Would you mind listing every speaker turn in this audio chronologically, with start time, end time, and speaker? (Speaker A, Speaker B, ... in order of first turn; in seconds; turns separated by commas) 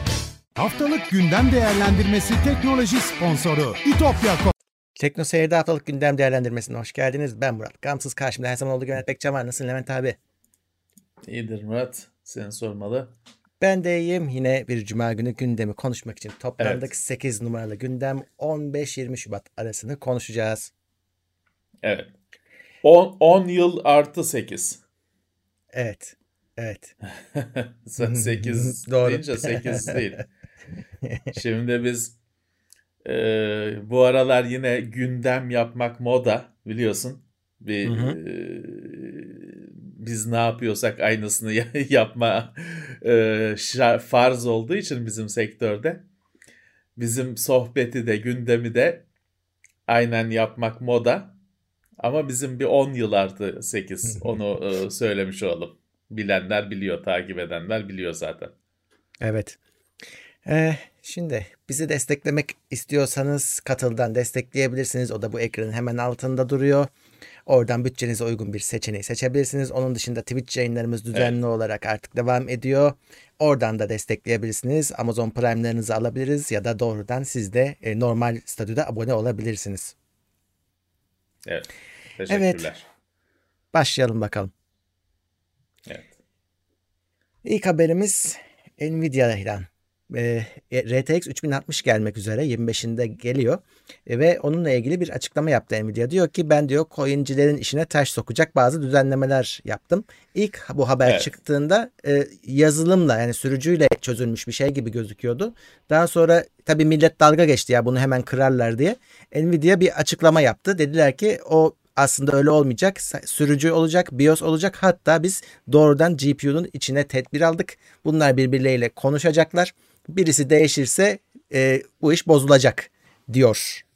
Speaker A: 0.6-4.5, Speaker B: 5.0-10.2, Speaker C: 11.3-13.1, Speaker B: 13.6-20.7, Speaker C: 16.6-16.9, Speaker C: 21.8-22.1, Speaker C: 22.8-24.8, Speaker B: 25.7-26.9, Speaker C: 27.3-30.2, Speaker B: 28.0-30.0, Speaker C: 31.3-32.2, Speaker C: 33.0-46.0, Speaker B: 37.8-38.2, Speaker C: 47.0-49.0, Speaker C: 49.9-51.3, Speaker C: 52.0-58.5, Speaker B: 59.2-59.6, Speaker B: 60.5-66.9, Speaker B: 67.5-79.9, Speaker C: 81.5-82.8, Speaker B: 82.3-82.7, Speaker B: 83.7-84.5, Speaker B: 87.4-123.8, Speaker C: 101.1-101.3